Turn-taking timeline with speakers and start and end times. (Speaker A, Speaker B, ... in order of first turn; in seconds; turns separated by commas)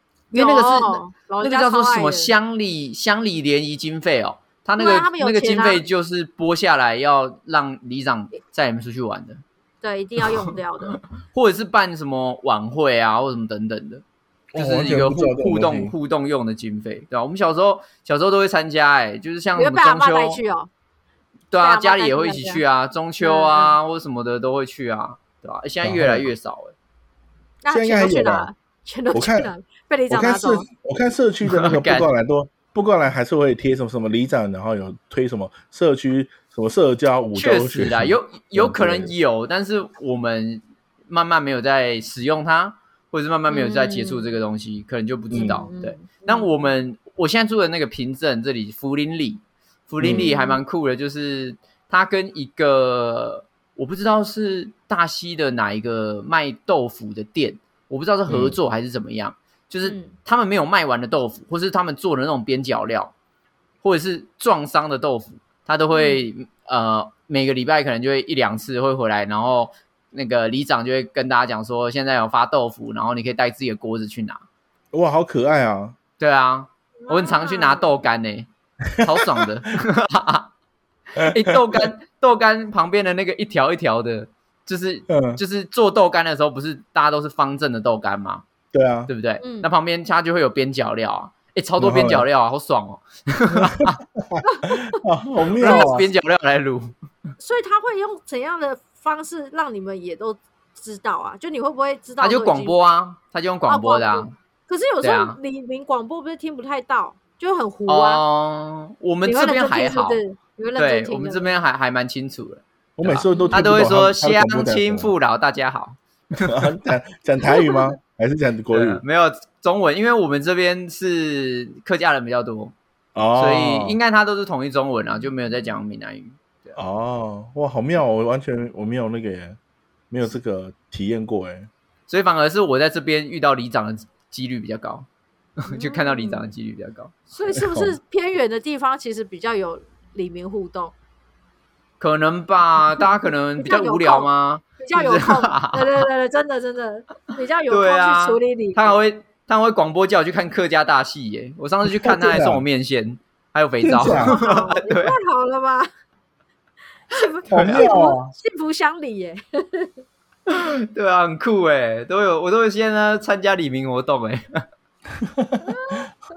Speaker A: 0.3-9.4, Speaker B: 0.3-2.3, Speaker B: 4.8-5.8, Speaker B: 9.8-11.0, Speaker A: 10.2-14.0, Speaker C: 14.5-15.9, Speaker A: 14.5-20.4, Speaker B: 19.5-20.7, Speaker A: 21.5-26.7, Speaker B: 21.6-22.6, Speaker B: 23.2-23.8, Speaker C: 25.8-26.3, Speaker B: 27.6-30.7, Speaker C: 27.7-28.5, Speaker C: 29.1-29.5, Speaker C: 30.1-39.1, Speaker A: 31.5-32.1, Speaker A: 37.3-63.1, Speaker B: 43.5-44.4, Speaker C: 45.3-45.6, Speaker B: 45.3-46.5, Speaker C: 50.0-50.3, Speaker B: 50.1-50.6, Speaker C: 58.3-58.6, Speaker B: 59.8-60.1, Speaker A: 63.8-74.4, Speaker B: 65.9-66.2, Speaker C: 74.9-76.0, Speaker A: 76.2-80.5, Speaker B: 77.0-77.9, Speaker C: 78.9-79.5, Speaker A: 81.1-88.4, Speaker C: 81.2-81.9, Speaker C: 85.1-85.4, Speaker C: 88.7-89.1, Speaker A: 89.1-94.0, Speaker B: 89.4-89.7, Speaker C: 91.8-92.3, Speaker C: 93.5-96.1, Speaker B: 94.4-95.0, Speaker A: 95.6-97.0, Speaker B: 95.6-96.0, Speaker B: 97.4-102.8, Speaker A: 102.2-104.3, Speaker B: 103.7-108.2, Speaker A: 105.0-105.4, Speaker A: 107.9-110.2, Speaker B: 109.2-111.5, Speaker A: 110.8-116.7, Speaker C: 113.0-115.1, Speaker B: 113.3-113.6, Speaker C: 116.4-119.0, Speaker B: 117.5-117.8, Speaker A: 118.7-122.7, Speaker C: 123.1-124.0, Speaker A: 123.3-126.8, Speaker C: 126.8-129.6, Speaker C: 130.1-131.7, Speaker A: 132.1-135.1, Speaker A: 135.6-137.1, Speaker B: 135.7-136.5, Speaker B: 137.3-140.9, Speaker C: 137.5-138.0, Speaker A: 142.0-146.1, Speaker B: 143.6-149.0, Speaker A: 147.7-155.2, Speaker C: 151.8-152.6, Speaker C: 153.8-154.4, Speaker B: 154.0-155.9, Speaker B: 157.1-159.9, Speaker C: 157.5-158.3, Speaker A: 157.5-157.9, Speaker A: 160.5-164.6, Speaker C: 165.2-166.0, Speaker B: 165.7-166.0